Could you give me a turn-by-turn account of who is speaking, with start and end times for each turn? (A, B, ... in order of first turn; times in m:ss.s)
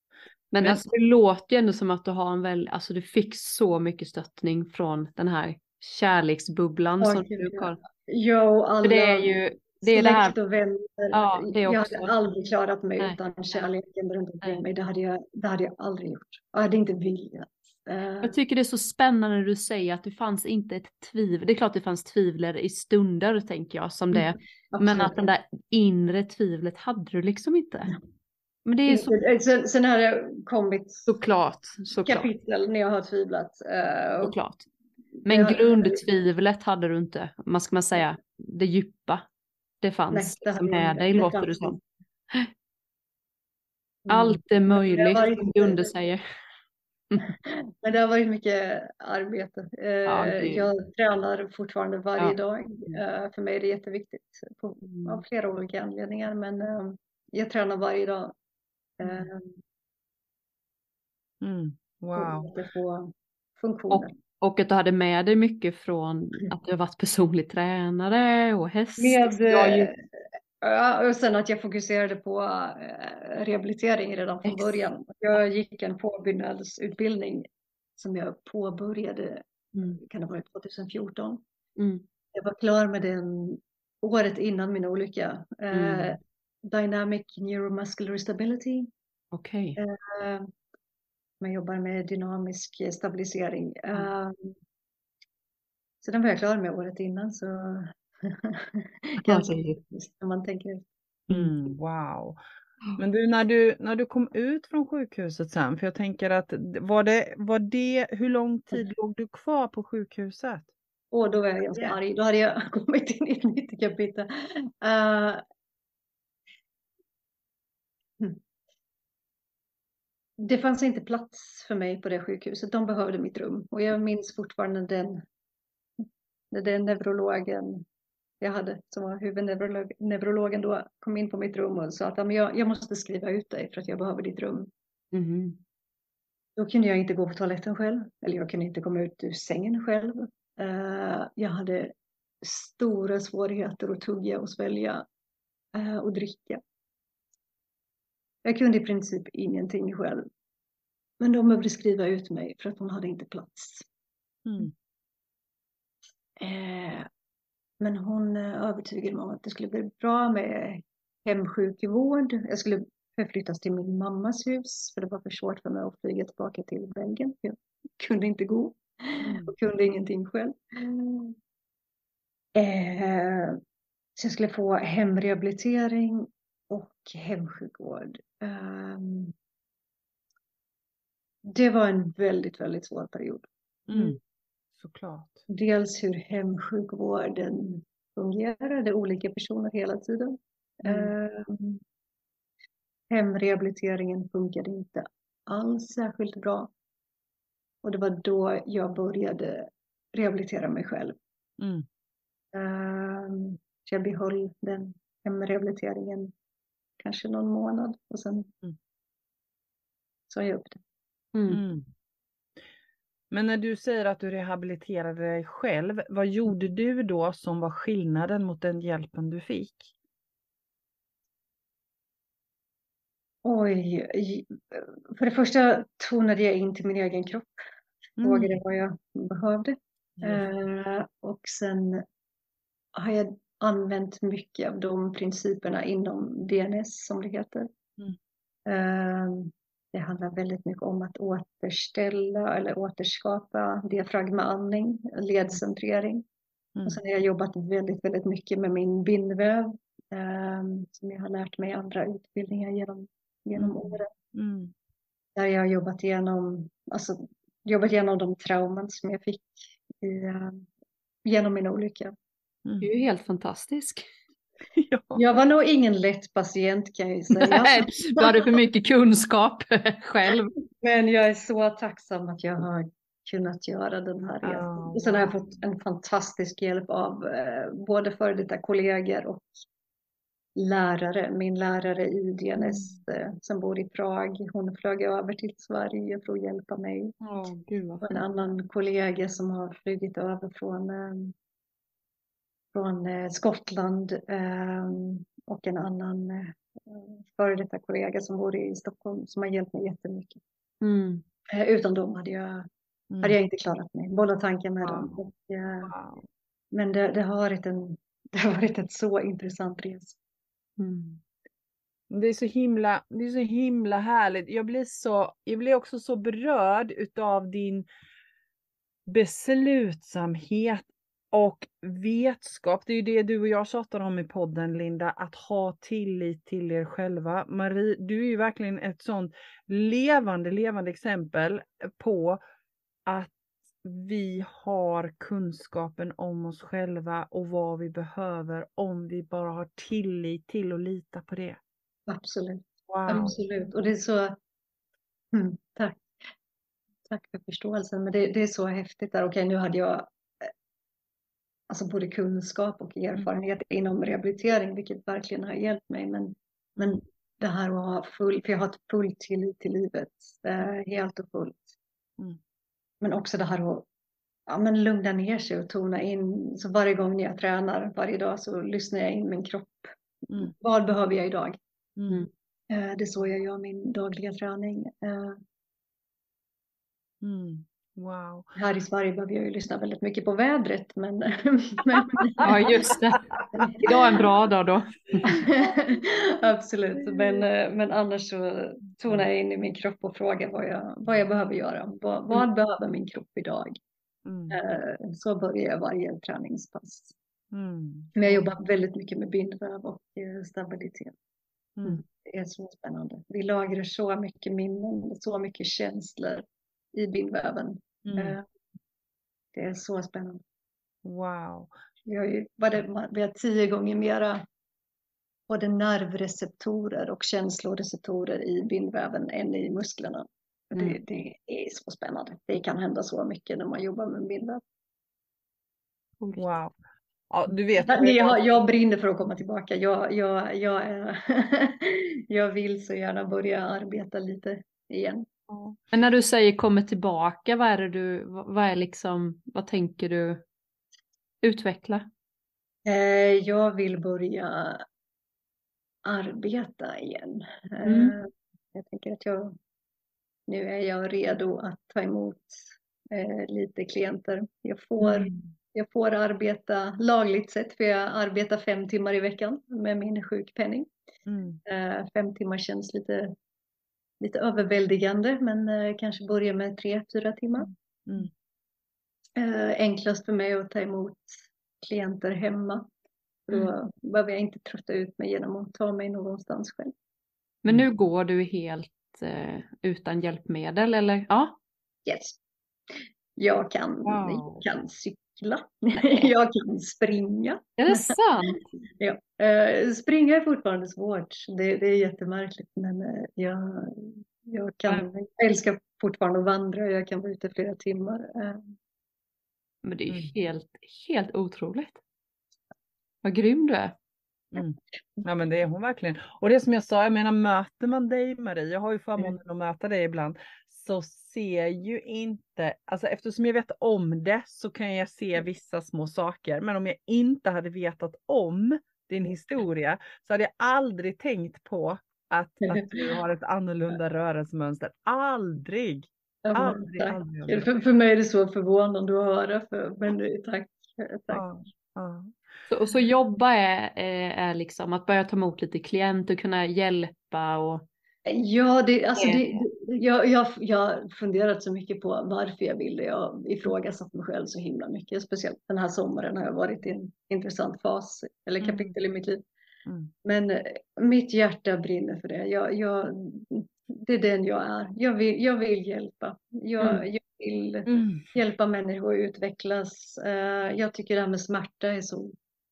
0:00.5-0:07.8 A
0:07.0-0:18.4 B
0:08.8-0:10.3 A
0:11.1-0:12.1 A
0:13.0-0:13.7 A
0:18.2-0:27.9 A
0:24.1-0:25.2 B
0:28.6-0:29.2 A
0:28.8-0:31.1 B
0:31.1-0:32.3 A
0:32.0-0:34.4 B
0:34.2-0:34.6 A
0:35.2-0:39.2 A
0:35.3-0:36.0 B
0:39.8-0:41.8 A
0:40.1-0:41.8 B
0:44.0-0:45.9 B
0:44.1-0:46.2 A
0:47.2-0:58.3 B
0:50.1-0:50.7 A
0:52.2-0:53.0 A
0:54.8-0:55.2 A
0:59.0-0:59.6 B
0:59.0-0:59.3 A
1:01.4-1:02.5 C
1:02.1-1:04.1 B
1:03.9-1:09.9 A
1:09.0-1:10.0 B
1:10.6-1:19.4 B
1:14.4-1:14.8 A
1:19.7-1:20.0 A
1:20.0-1:21.4 B
1:21.8-1:22.0 A
1:22.3-1:28.9 B
1:25.7-1:26.2 A
1:29.3-1:29.8 A
1:29.8-1:30.5 B
1:31.4-1:34.6 B
1:36.0-1:40.9 B
1:39.2-1:39.8 A
1:41.3-1:42.4 C
1:41.3-1:41.5 A
1:43.0-1:50.7 C
1:51.1-1:55.4 B
2:00.4-2:05.2 B
2:06.5-2:07.8 B
2:08.4-2:14.7 B
2:15.1-2:15.6 A
2:16.6-2:25.0 B
2:25.7-2:26.6 B
2:28.4-2:30.2 B
2:31.2-2:33.8 B
2:34.4-2:34.7 C
2:36.4-2:37.1 B
2:37.8-2:51.3 B
2:49.2-2:49.5 C
2:52.6-2:53.6 B
2:54.2-2:59.3 B
3:01.4-3:03.5 B
3:03.9-3:04.2 C
3:04.8-3:05.4 C
3:05.5-3:11.8 B
3:10.8-3:11.1 A
3:13.1-3:16.7 B
3:17.8-3:21.2 B
3:21.6-3:21.8 C
3:22.5-3:26.3 B
3:27.0-3:28.5 B
3:30.3-3:30.8 B
3:31.3-3:31.6 A
3:31.5-3:31.9 C
3:33.3-3:39.9 C
3:43.4-3:47.5 B
3:48.2-3:48.6 C
3:48.2-3:52.0 B
3:52.9-3:57.7 B
3:58.7-4:06.2 B
4:06.8-4:14.1 B
4:13.6-4:14.7 C
4:15.4-4:20.6 B
4:21.2-4:22.1 B
4:22.8-4:24.0 A
4:24.8-4:25.4 C
4:25.1-4:28.5 B
4:27.4-4:30.5 A
4:30.8-4:39.5 B
4:34.4-4:35.4 C
4:40.6-4:47.2 B
4:42.7-4:43.0 C
4:47.2-4:48.0 C
4:48.0-4:51.3 B
4:52.7-5:00.4 B
5:00.8-5:01.2 A
5:01.5-5:02.7 B
5:03.1-5:03.4 C
5:03.2-5:05.9 B
5:04.8-5:05.2 C
5:05.8-5:06.2 C
5:06.7-5:10.2 B
5:10.8-5:11.2 A
5:12.1-5:17.8 C
5:19.1-5:32.4 C
5:33.0-5:41.6 C
5:42.1-5:44.4 B
5:42.9-5:43.4 C
5:45.3-5:46.1 B
5:47.0-5:50.5 B
5:51.7-6:01.7 B
5:56.8-5:57.0 C
6:03.0-6:03.8 B
6:04.5-6:11.6 B
6:12.0-6:12.3 C
6:12.7-6:15.4 B
6:17.2-6:18.5 C
6:18.5-6:22.7 B
6:22.4-6:25.1 A
6:23.5-6:24.2 B
6:25.2-6:33.8 B
6:27.1-6:27.4 C
6:34.2-6:34.6 C
6:34.5-6:37.1 B
6:37.5-6:38.4 C
6:38.1-6:41.1 B
6:41.8-6:42.0 C
6:42.1-6:48.4 B
6:48.0-6:48.4 C
6:49.5-6:50.4 B
6:51.0-6:51.7 C
6:52.1-6:54.4 B
6:55.5-7:04.6 B
7:06.2-7:06.6 A
7:06.4-7:06.7 C
7:07.3-7:08.6 C
7:07.8-7:15.3 B
7:15.5-7:15.8 C
7:15.9-7:20.4 A
7:21.4-7:22.1 A
7:22.8-7:24.8 B
7:26.0-7:29.6 B
7:27.8-7:28.1 A
7:30.5-7:40.9 B
7:35.0-7:35.5 C
7:41.3-7:41.6 C
7:41.6-7:43.3 B
7:44.2-7:47.7 B
7:48.0-7:48.3 C
7:49.4-7:52.9 B
7:53.5-7:56.9 B
7:57.6-8:01.6 A
8:02.0-8:02.4 B
8:03.4-8:18.7 B
8:04.0-8:04.6 C
8:07.8-8:08.6 A
8:19.8-8:22.0 A
8:23.2-8:23.9 A
8:24.5-8:47.7 C
8:42.6-8:42.9 B
8:46.4-8:51.4 B
8:51.3-8:52.3 C
8:52.7-8:57.9 A
8:58.3-9:09.4 B
8:59.2-8:59.6 A
9:08.6-9:08.9 C
9:09.8-9:10.1 C
9:10.2-9:22.3 B
9:17.9-9:18.3 C